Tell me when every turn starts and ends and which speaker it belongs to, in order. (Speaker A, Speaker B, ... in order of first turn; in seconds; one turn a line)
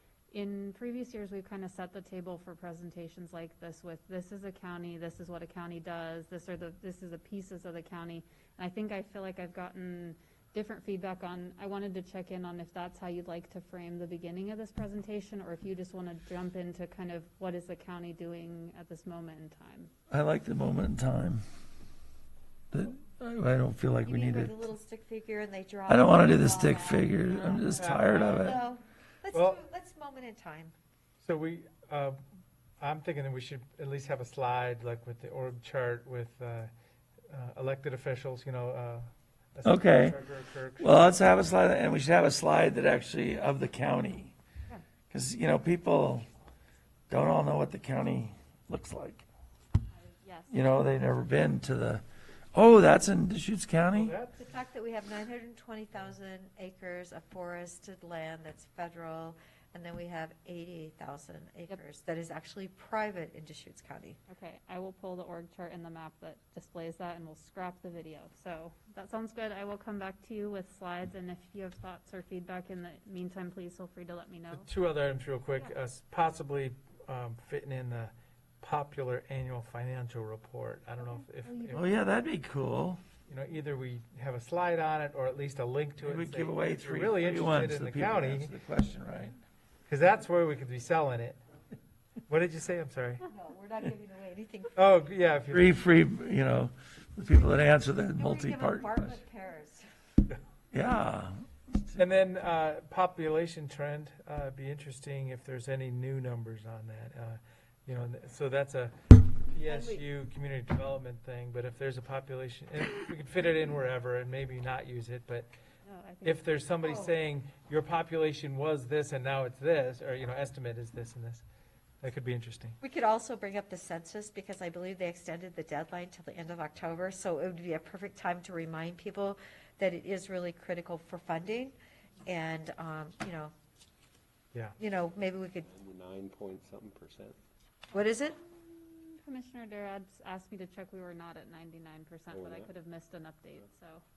Speaker A: 0.3-19.9
Speaker B: 20.1-21.4
Speaker B: 22.7-24.6
Speaker C: 24.0-30.7
Speaker B: 25.9-28.6
Speaker D: 27.8-28.5
Speaker D: 29.3-29.6
Speaker D: 31.2-32.2
Speaker D: 32.8-36.7
Speaker D: 37.3-41.1
Speaker B: 39.6-40.2
Speaker B: 40.8-44.3
Speaker B: 45.1-46.3
Speaker B: 47.1-49.2
Speaker A: 49.9-50.5
Speaker B: 50.5-54.1
Speaker D: 53.9-54.4
Speaker C: 54.4-64.2
Speaker A: 64.3-74.7
Speaker D: 74.5-81.9
Speaker A: 81.0-81.9
Speaker B: 81.7-83.0
Speaker D: 83.3-88.5
Speaker B: 86.0-89.4
Speaker D: 89.9-91.4
Speaker D: 92.3-93.2
Speaker C: 93.2-94.8
Speaker D: 94.7-95.7
Speaker B: 95.5-99.2
Speaker C: 98.1-99.9
Speaker B: 100.7-102.0
Speaker D: 102.0-108.9
Speaker D: 109.5-115.5
Speaker C: 109.7-110.0
Speaker A: 115.8-116.4
Speaker D: 116.2-121.4
Speaker C: 116.8-117.1
Speaker D: 122.0-122.8
Speaker C: 122.8-131.7
Speaker C: 132.2-133.5
Speaker C: 134.8-135.7
Speaker E: 135.7-137.4
Speaker C: 137.9-138.4
Speaker A: 138.6-144.0
Speaker E: 142.3-142.7